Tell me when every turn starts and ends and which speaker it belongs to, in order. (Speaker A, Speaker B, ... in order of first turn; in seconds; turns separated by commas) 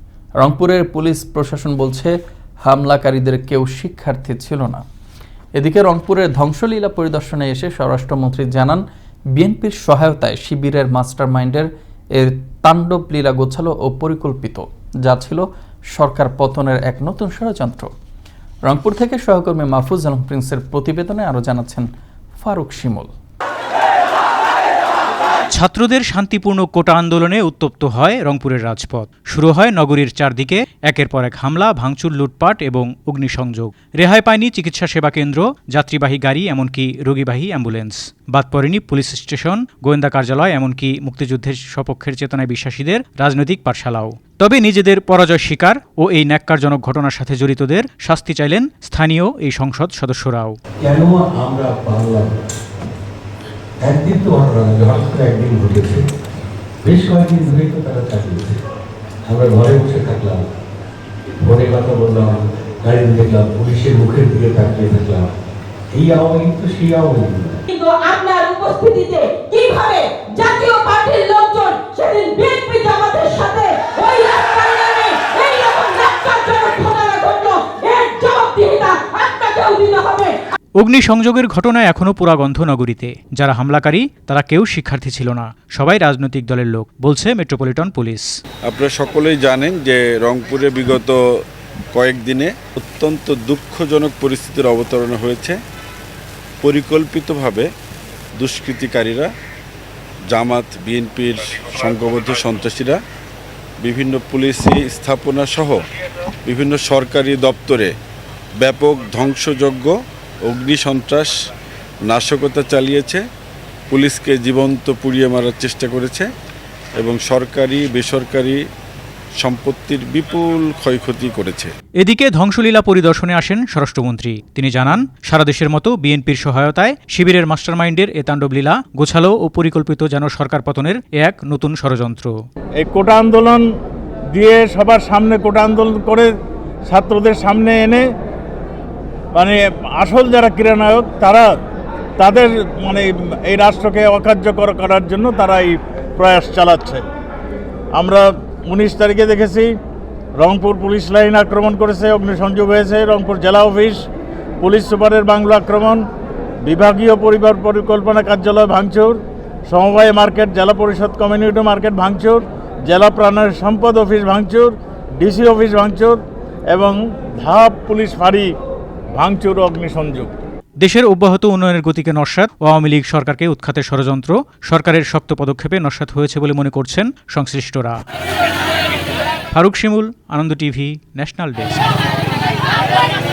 Speaker A: 0.4-2.1, Speaker A: 2.7-4.8, Speaker A: 5.6-8.8, Speaker A: 9.3-17.9, Speaker A: 18.7-23.1, Speaker B: 25.5-50.5, Speaker C: 50.8-52.4, Speaker C: 53.8-56.1, Speaker C: 56.8-58.6, Speaker C: 59.3-60.5, Speaker C: 61.4-65.3, Speaker C: 65.9-67.6, Speaker D: 67.7-80.4, Speaker B: 80.8-88.3, Speaker E: 88.7-91.4, Speaker E: 91.9-95.6, Speaker E: 96.6-97.7, Speaker E: 98.4-99.3, Speaker E: 100.3-103.0, Speaker E: 103.8-105.8, Speaker E: 106.5-107.9, Speaker E: 108.6-109.9, Speaker E: 110.5-111.3, Speaker E: 112.1-113.2, Speaker E: 113.9-116.3, Speaker E: 117.0-118.6, Speaker E: 119.4-121.7, Speaker B: 122.0-132.3, Speaker F: 132.8-133.7, Speaker F: 134.3-136.3, Speaker F: 136.9-138.1, Speaker F: 139.3-141.6, Speaker F: 142.2-147.0, Speaker F: 147.9-149.7, Speaker F: 150.4-154.1, Speaker F: 154.6-156.1, Speaker F: 156.6-168.5, Speaker F: 169.1-170.3, Speaker B: 170.8-178.0, Speaker B: 179.5-181.9